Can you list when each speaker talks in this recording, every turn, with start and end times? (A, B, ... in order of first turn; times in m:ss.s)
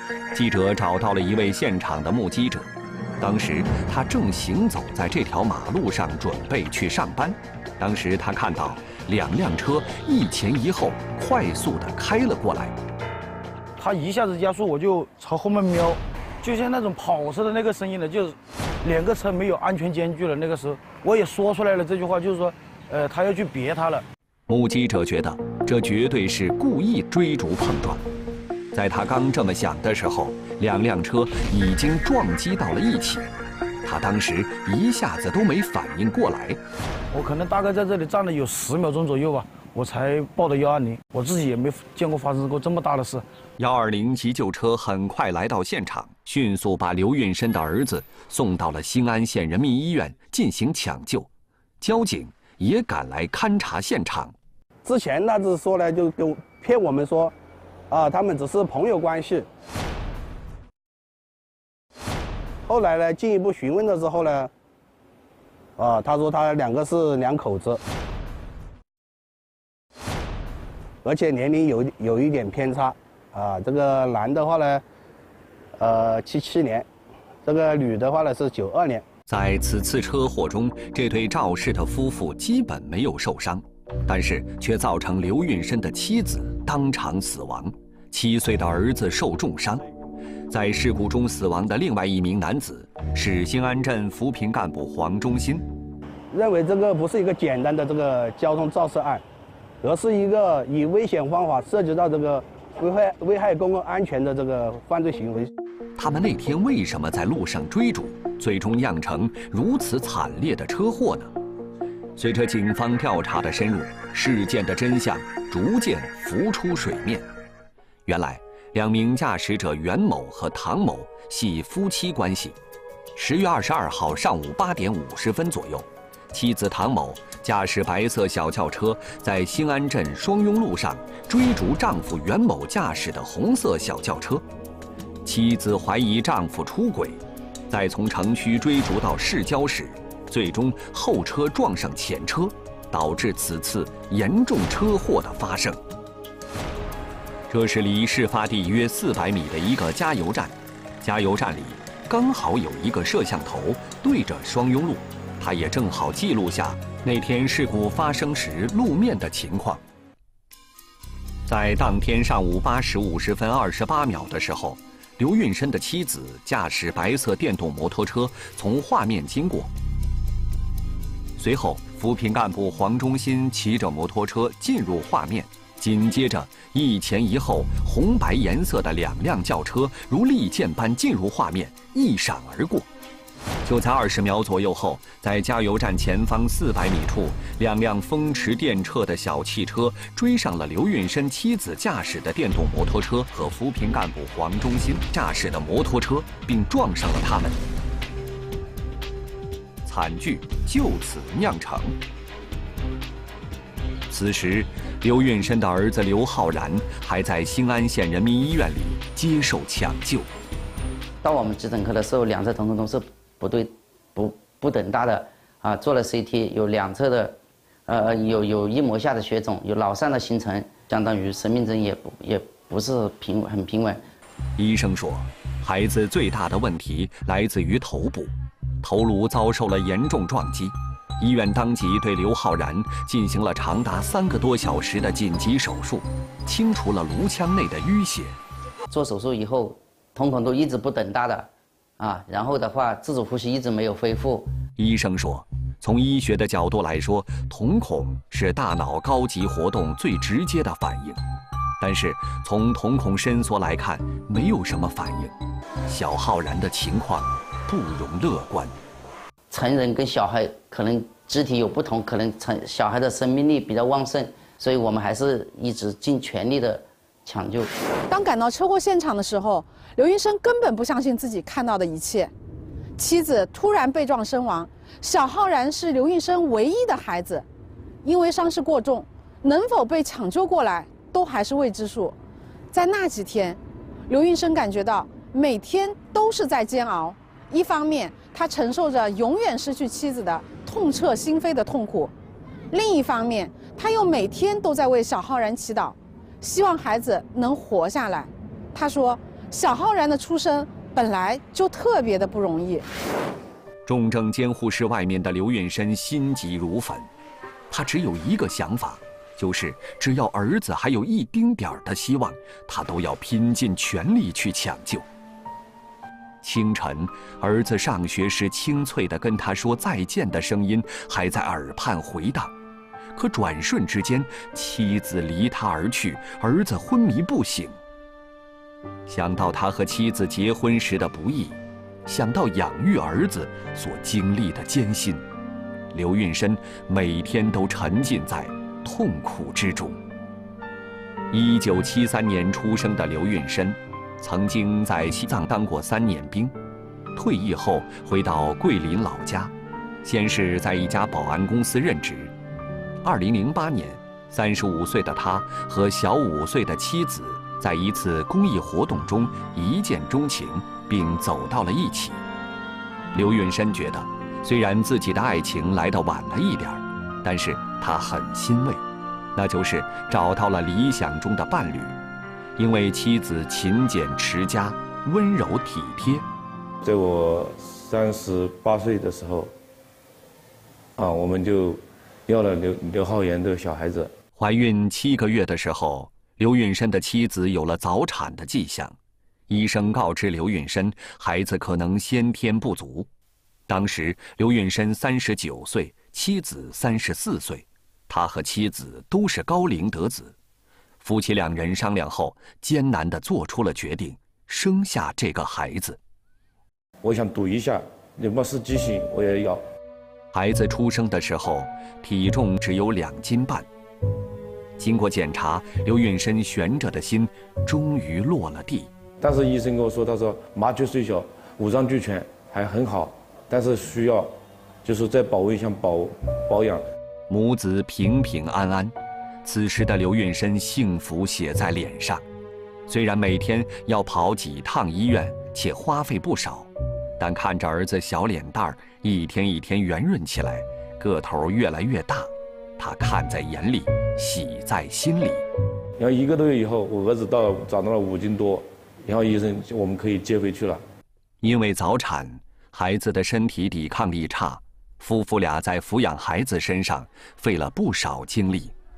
0:00.3-0:12.7 A
0:13.8-0:24.0 B
0:24.5-0:28.0 A
0:28.7-0:33.3 A
0:33.8-0:36.6 A
0:37.1-0:43.2 B
0:43.6-0:51.3 A
0:51.8-0:54.3 A
0:54.8-0:57.3 C
0:57.9-0:59.5 C
1:02.6-1:04.5 C
1:05.8-1:07.8 C
1:11.0-1:14.8 C
1:15.8-1:16.9 C
1:17.4-1:19.0 C
1:19.3-1:29.8 A
1:30.5-1:35.6 A
1:36.3-1:39.2 C
1:39.8-1:45.5 C
1:46.0-1:51.3 A
1:52.2-1:57.3 A
1:58.0-2:02.6 A
2:03.1-2:14.4 A
2:15.2-2:25.8 A
2:27.5-2:39.8 A
2:41.5-2:49.7 A
2:51.4-3:02.9 A
3:03.6-3:17.6 A
3:19.8-3:22.0 A
3:24.1-3:30.3 A
3:31.2-3:37.3 D
3:37.9-3:44.0 D
3:44.6-3:58.4 A
3:58.9-4:04.5 D
4:04.8-4:11.2 A
4:11.8-4:15.3 A
4:15.8-4:18.7 A
4:19.5-4:27.7 D
4:28.1-4:32.3 E
4:33.0-4:37.4 E
4:38.0-4:42.2 E
4:42.7-4:52.1 E
4:52.7-5:02.8 E
5:03.8-5:07.1 A
5:07.7-5:15.0 A
5:16.4-5:22.5 A
5:23.1-5:27.8 A
5:29.1-5:35.2 A
5:35.9-5:40.0 A
5:41.3-5:46.5 A
5:47.1-5:49.5 A
5:50.0-5:52.3 A
5:53.0-6:02.2 A
6:03.1-6:08.8 A
6:09.4-6:12.0 A
6:12.6-6:16.2 A
6:16.8-6:19.5 F
6:21.0-6:24.1 F
6:24.4-6:28.9 A
6:29.5-6:33.1 A
6:33.7-6:40.3 A
6:41.0-6:46.0 A
6:47.0-6:49.6 F
6:50.3-6:53.7 A
6:54.8-6:58.9 A
6:59.2-7:04.3 F
7:04.8-7:06.8 F
7:07.3-7:12.2 A
7:12.9-7:25.4 A
7:26.0-7:30.8 F
7:31.4-7:38.7 A